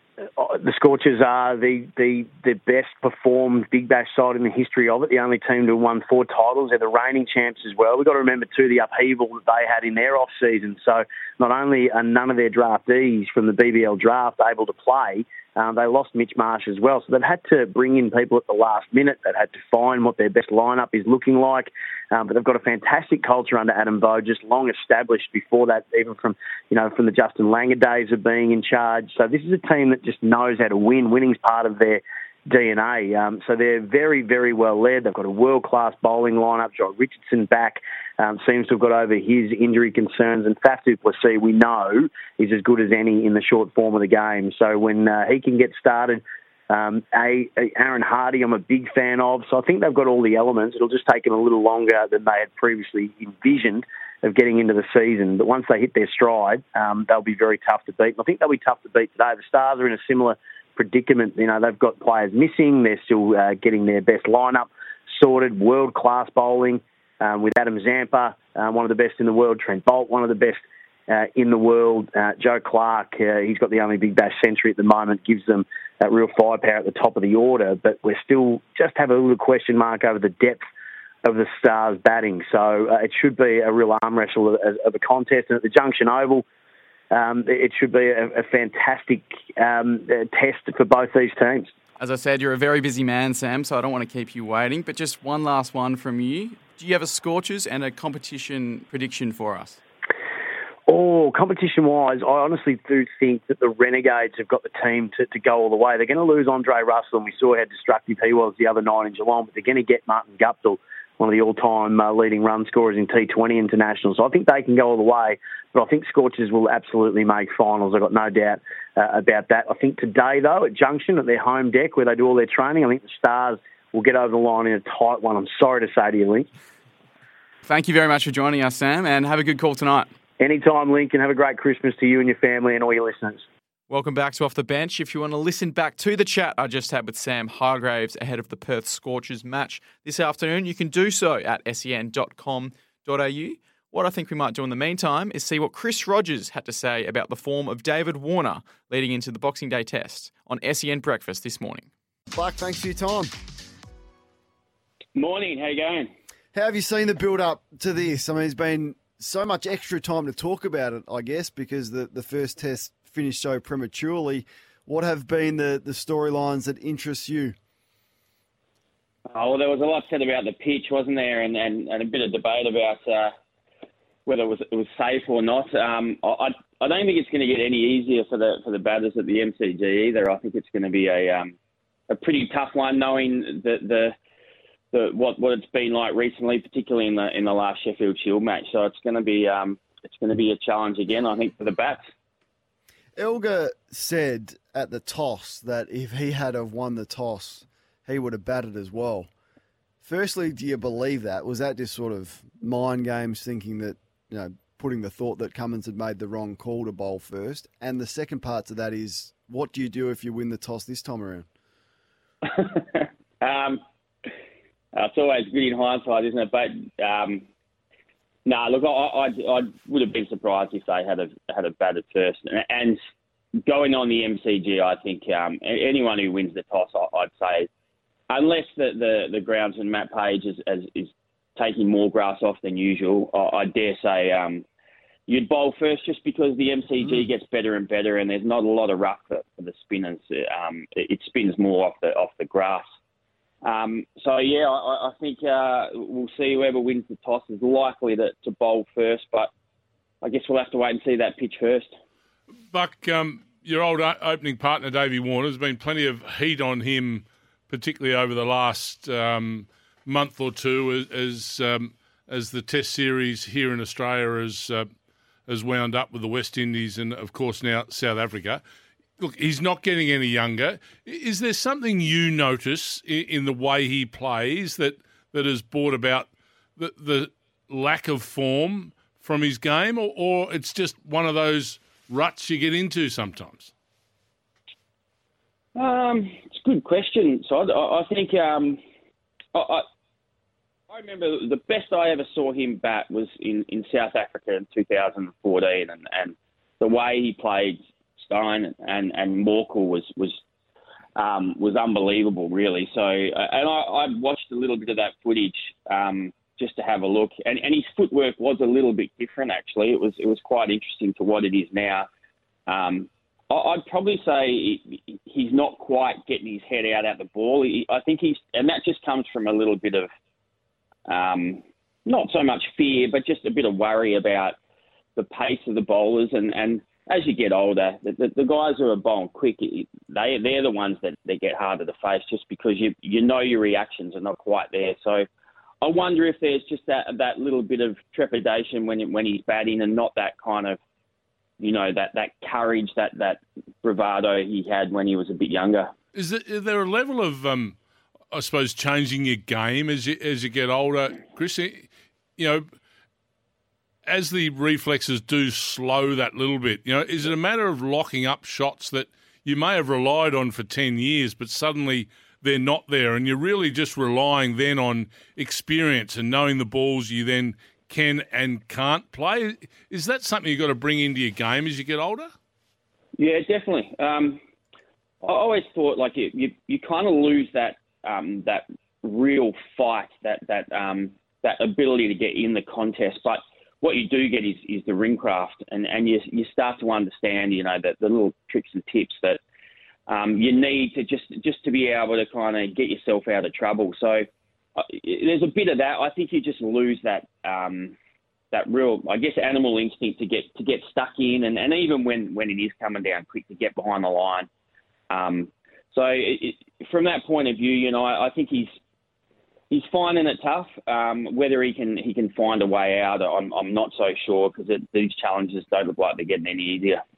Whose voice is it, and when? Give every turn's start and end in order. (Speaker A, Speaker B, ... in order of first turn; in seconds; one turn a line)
Speaker A: 0.4-80.6
Speaker A: 81.2-86.4
Speaker A: 87.1-91.7
Speaker B: 92.0-99.8
Speaker A: 100.9-126.5
Speaker B: 127.6-130.1
Speaker A: 130.4-133.4
Speaker B: 133.9-151.9
Speaker C: 152.3-153.3
Speaker D: 155.1-156.1
Speaker C: 156.5-167.5
Speaker D: 169.3-173.3
Speaker D: 174.2-181.5
Speaker D: 182.1-184.1
Speaker D: 184.9-192.0
Speaker C: 193.2-199.3
Speaker C: 200.0-211.5
Speaker D: 212.7-213.8
Speaker D: 214.9-217.4
Speaker D: 218.4-223.0
Speaker D: 223.7-227.7
Speaker D: 228.3-234.6
Speaker D: 235.3-242.8
Speaker D: 243.6-249.5
Speaker D: 250.2-251.9
Speaker E: 252.7-264.9
Speaker E: 265.5-268.6
Speaker E: 269.2-283.7
Speaker D: 285.8-288.8
Speaker D: 289.5-289.8
Speaker D: 290.9-300.4
Speaker D: 301.2-312.1
Speaker D: 312.7-320.1
Speaker D: 321.1-324.5
Speaker D: 325.2-335.2
Speaker D: 335.8-340.8
Speaker D: 341.6-345.9
Speaker E: 346.1-347.8
Speaker E: 348.3-352.6
Speaker E: 354.1-372.3
Speaker D: 373.2-374.4
Speaker D: 375.2-389.4
Speaker D: 390.1-394.2
Speaker D: 394.8-397.9
Speaker D: 398.5-404.5
Speaker D: 405.1-408.7
Speaker D: 409.7-417.0